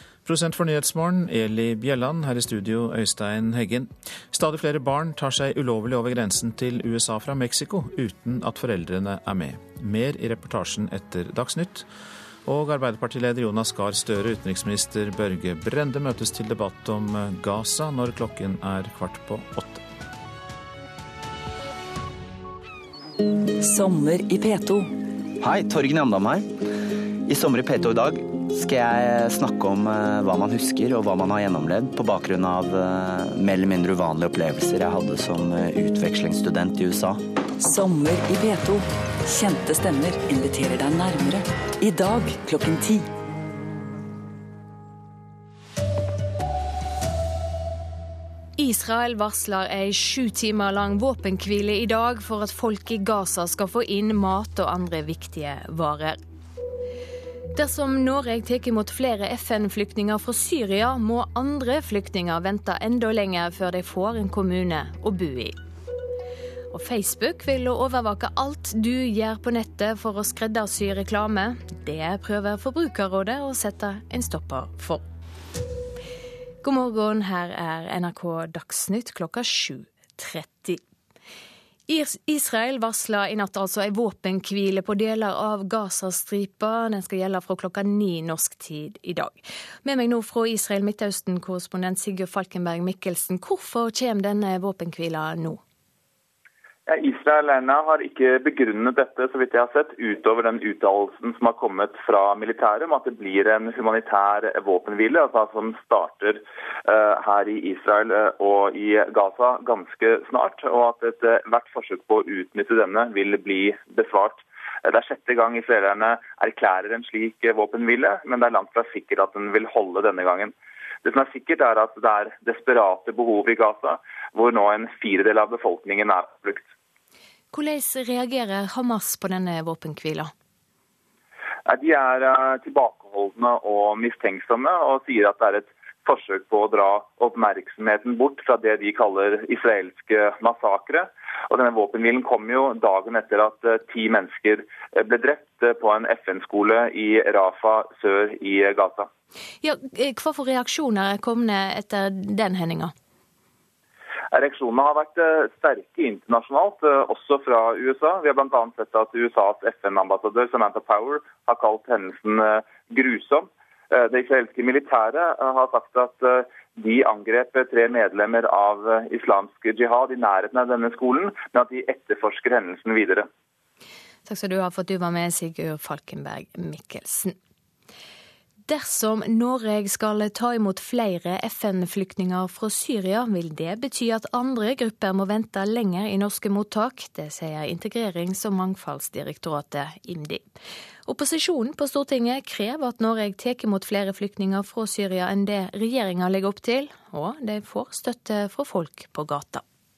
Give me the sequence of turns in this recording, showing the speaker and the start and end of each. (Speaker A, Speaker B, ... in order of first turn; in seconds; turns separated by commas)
Speaker A: 0.2-11.9, Speaker A: 12.4-19.8, Speaker B: 23.6-24.9, Speaker C: 25.4-26.6, Speaker C: 27.3-37.2, Speaker B: 37.6-43.1, Speaker D: 48.6-56.2, Speaker D: 57.6-65.6, Speaker D: 66.7-75.0, Speaker D: 76.6-80.8, Speaker D: 81.9-95.6, Speaker E: 96.9-120.5, Speaker E: 121.0-126.7, Speaker D: 127.5-130.3, Speaker E: 131.7-149.1, Speaker D: 149.6-152.9, Speaker E: 154.3-173.3, Speaker D: 174.3-177.3, Speaker D: 178.7-190.5, Speaker D: 191.1-199.6